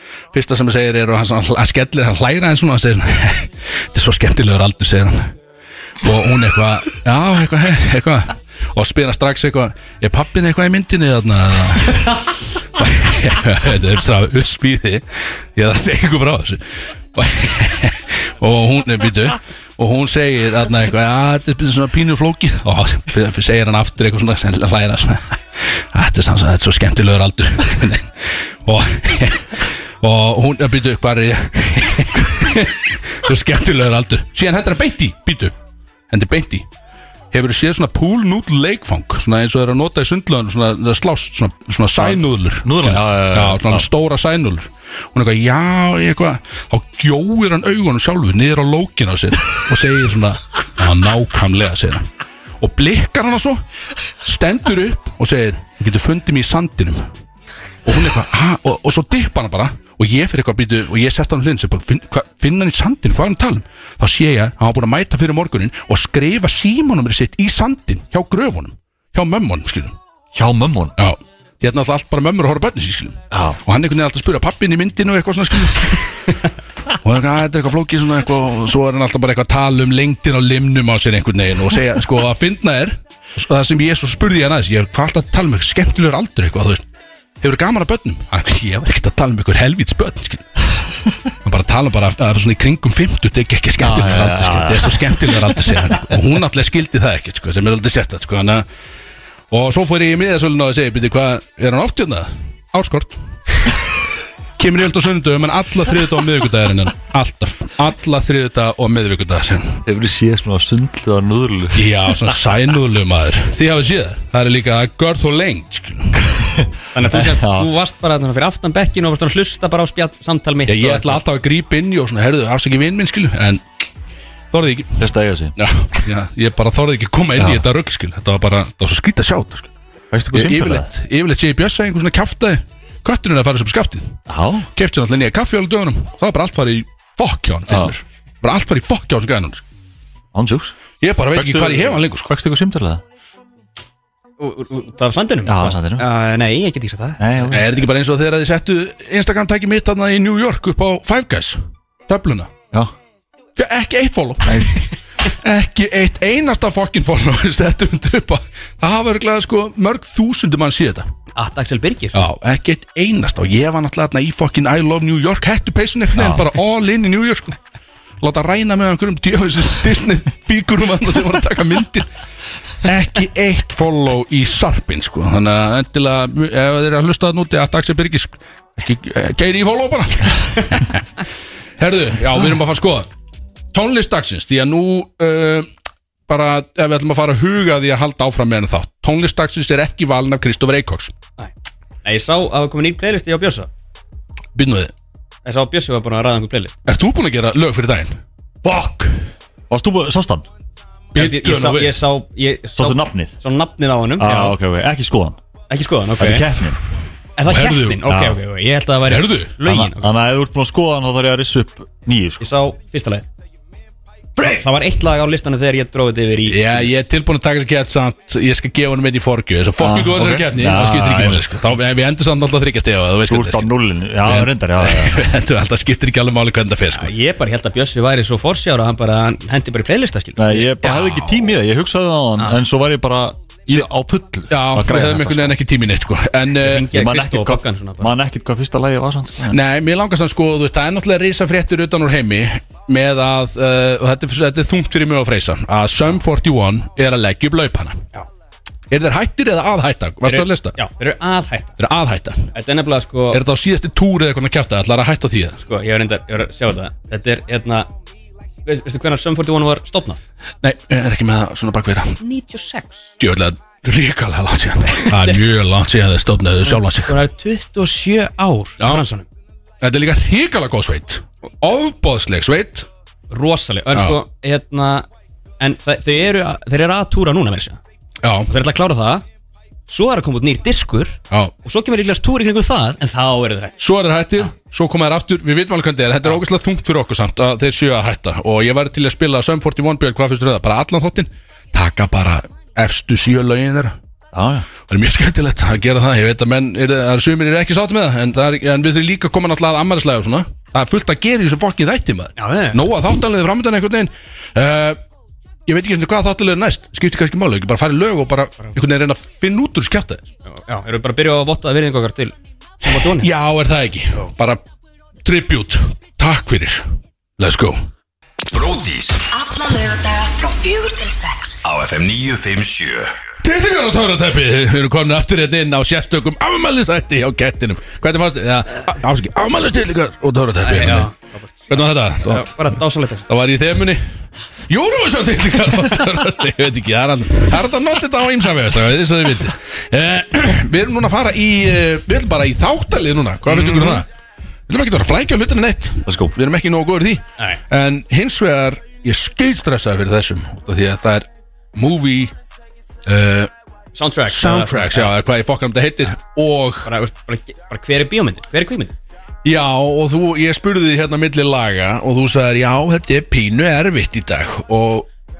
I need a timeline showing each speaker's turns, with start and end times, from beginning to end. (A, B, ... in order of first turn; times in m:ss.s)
0:00.3-0:05.3 A
0:06.0-0:16.6 A
0:17.1-0:35.5 A
0:36.1-0:36.6 A
0:37.3-0:52.1 A
0:42.0-0:43.9 B
0:52.6-0:53.6 A
0:54.2-0:57.0 A
0:57.8-1:10.0 A
1:10.3-1:10.9 B
1:11.0-1:16.4 A
1:13.3-1:13.6 B
1:16.9-1:26.8 A
1:27.4-1:30.6 A
1:31.4-1:38.6 A
1:33.8-1:36.2 B
1:39.5-1:43.7 A
1:44.6-1:49.8 A
1:49.8-1:52.1 B
1:51.7-1:56.4 A
1:56.2-1:57.7 B
1:56.9-2:01.2 C
2:00.7-2:03.6 A
2:04.5-2:05.0 A
2:05.0-2:05.5 B
2:05.6-2:09.7 A
2:07.4-2:07.6 B
2:10.1-2:10.9 B
2:10.3-2:14.2 A
2:14.3-2:14.7 B
2:14.7-2:19.6 A
2:17.7-2:17.9 B
2:20.3-2:20.7 B
2:21.0-2:22.3 A
2:21.3-2:23.0 B
2:24.4-2:27.2 C
2:25.4-2:26.0 B
2:27.2-2:27.7 B
2:27.5-2:32.5 A
2:33.6-2:41.1 A
2:34.4-2:34.7 B
2:41.3-2:42.2 C
2:42.1-2:47.6 A
2:46.1-2:46.4 B
2:48.2-2:52.0 A
2:52.8-3:01.0 A
3:01.8-3:03.1 A
3:03.7-3:05.7 A
3:06.3-3:11.1 A
3:12.0-3:13.7 C
3:14.5-3:14.9 A
3:15.4-3:16.8 C
3:16.9-3:18.2 A
3:18.6-3:20.4 B
3:21.1-3:22.0 A
3:21.1-3:24.6 C
3:22.8-3:23.3 B
3:24.2-3:25.4 B
3:25.7-3:26.6 C
3:26.2-3:26.8 B
3:27.4-3:30.1 C
3:27.4-3:28.2 A
3:28.0-3:28.4 B
3:29.0-3:29.5 A
3:29.6-3:32.4 B
3:32.4-3:33.3 C
3:34.4-3:36.9 C
3:36.5-3:43.7 A
3:39.8-3:41.6 B
3:43.3-3:45.3 B
3:44.2-3:47.1 A
3:46.9-3:51.2 C
3:50.4-3:55.6 B
3:54.5-3:56.9 A
3:56.6-3:58.1 C
3:56.9-3:59.6 B
3:59.5-4:08.0 A
4:08.9-4:10.8 A
4:10.2-4:11.8 C
4:11.8-4:12.5 A
4:12.5-4:13.4 C
4:13.3-4:15.6 A
4:15.6-4:17.9 C
4:18.6-4:20.2 C
4:20.6-4:22.2 A
4:22.2-4:23.1 C
4:23.2-4:27.2 A
4:25.0-4:25.4 C
4:26.6-4:29.3 C
4:28.8-4:29.0 A
4:29.8-4:32.9 A
4:33.3-4:35.1 C
4:35.6-4:37.8 C
4:38.2-4:38.5 A
4:38.5-4:39.2 C
4:39.9-4:43.8 C
4:43.8-4:53.9 A
4:54.3-4:54.7 B
4:54.9-5:05.0 A
5:02.4-5:02.8 C
5:05.7-5:10.2 A
5:10.5-5:13.3 C
5:13.0-5:14.6 A
5:15.2-5:16.8 A
5:17.4-5:17.8 A
5:18.5-5:19.2 D
5:19.3-5:21.6 E
5:21.6-5:23.1 D
5:23.4-5:31.1 A
5:30.6-5:33.3 C
5:31.7-5:32.6 A
5:33.3-5:34.0 A
5:34.7-5:44.1 A
5:43.5-5:44.0 C
5:44.7-5:52.3 A
5:46.0-5:46.3 B
5:53.0-5:53.5 A
5:53.9-5:55.1 C
5:54.3-5:56.9 A
5:56.8-5:58.9 C
5:59.4-6:05.1 A